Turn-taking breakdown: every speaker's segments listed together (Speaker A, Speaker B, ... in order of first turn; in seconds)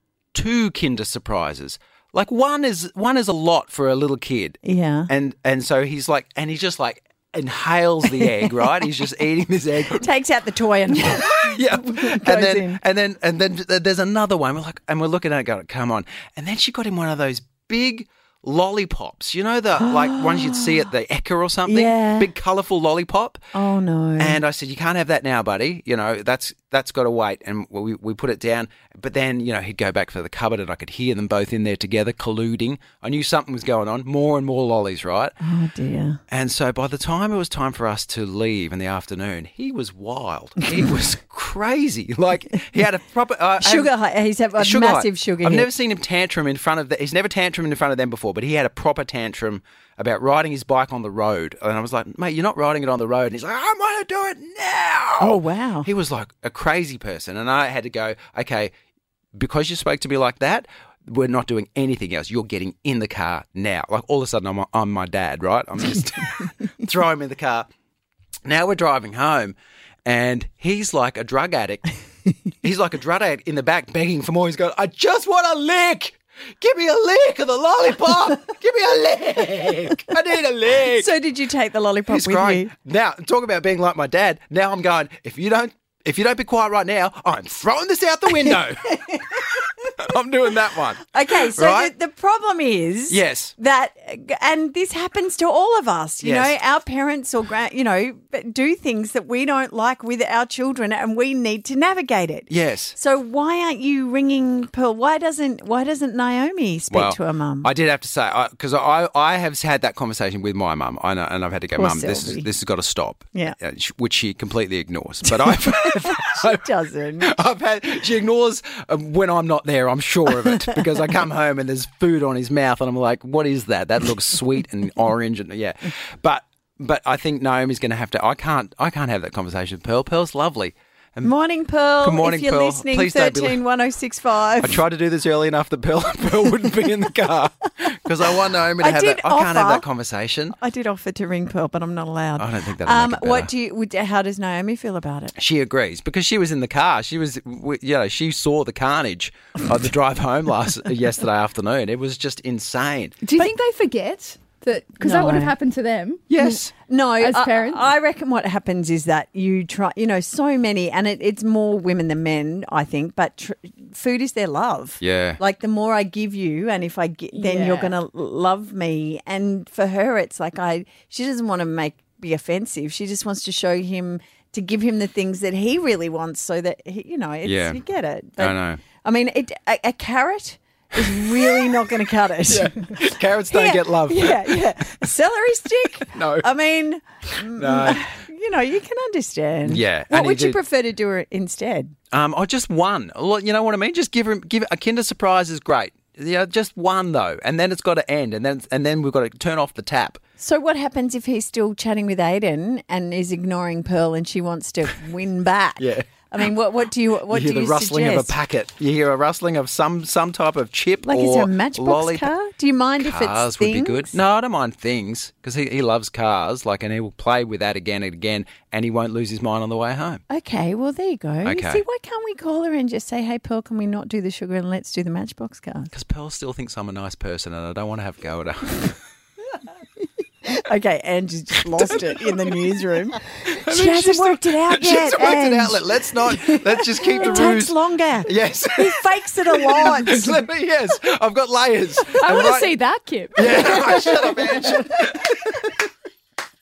Speaker A: 0.3-4.6, 5.1-10.1, 11.0-23.4, 24.2-35.4, 36.3-43.9, 44.6-58.7, 59.3-67.7, 68.5-71.9, 72.6-81.1, 82.1-91.9, 93.1-93.5, 96.2-96.5, 102.5-103.0, 106.9-116.7, 117.2-131.3, 132.0-133.6, 134.6-140.6, 142.4-143.5, 145.3-153.2, 156.3-156.7, 165.0-165.4, 177.4-177.8, 178.4-178.8, 182.4-185.1, 185.8-186.5, 187.3-188.0, 189.7-190.6, 192.1-200.2, 205.8-206.1, 207.3-212.3, 213.0-220.2, 221.4-221.8, 225.9-229.0, 231.8-232.3, 233.4-242.7, 243.3-245.7
Speaker B: 4.6-5.1, 10.0-12.8, 20.3-20.8, 21.7-22.3, 23.5-24.4, 35.4-36.2, 43.6-45.7, 55.2-55.9, 80.8-82.7, 91.1-107.7, 111.8-112.5, 115.4-117.3, 131.2-134.8, 138.8-139.8, 140.6-145.3, 155.0-155.5, 156.3-191.9, 200.4-208.3, 211.0-214.2, 220.3-225.9, 230.4-240.4
Speaker C: 153.2-156.2, 157.2-157.8, 167.3-167.9, 242.2-244.2